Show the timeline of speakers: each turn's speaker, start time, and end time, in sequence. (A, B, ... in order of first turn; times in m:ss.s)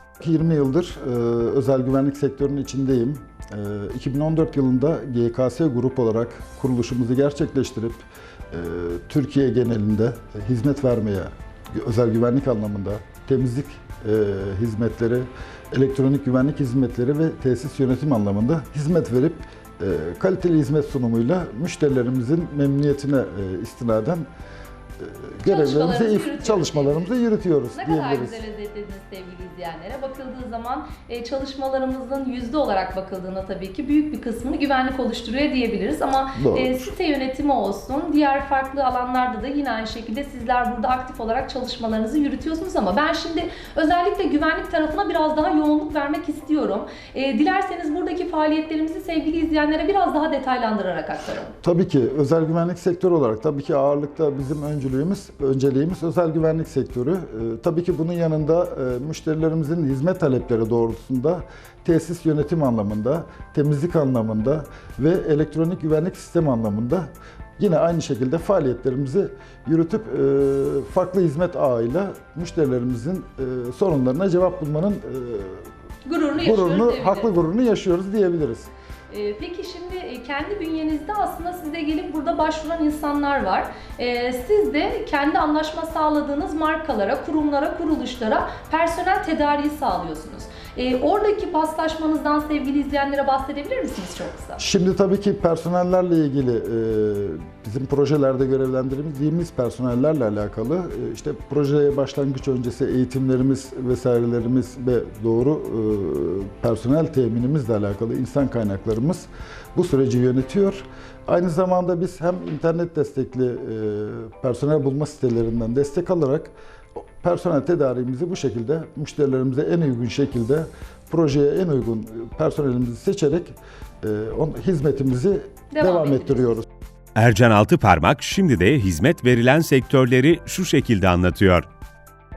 0:00.2-0:24.3 A
0:25.0-0:28.4 A
0:25.4-0:27.1 B
0:27.7-0:51.5 B
0:36.3-0:36.9 A
0:51.6-1:15.6 A
1:16.0-1:17.3 B
1:16.4-1:18.7 A
1:19.1-1:34.6 B
1:34.6-2:06.6 A
2:05.7-2:06.5 B
2:07.2-2:11.6 C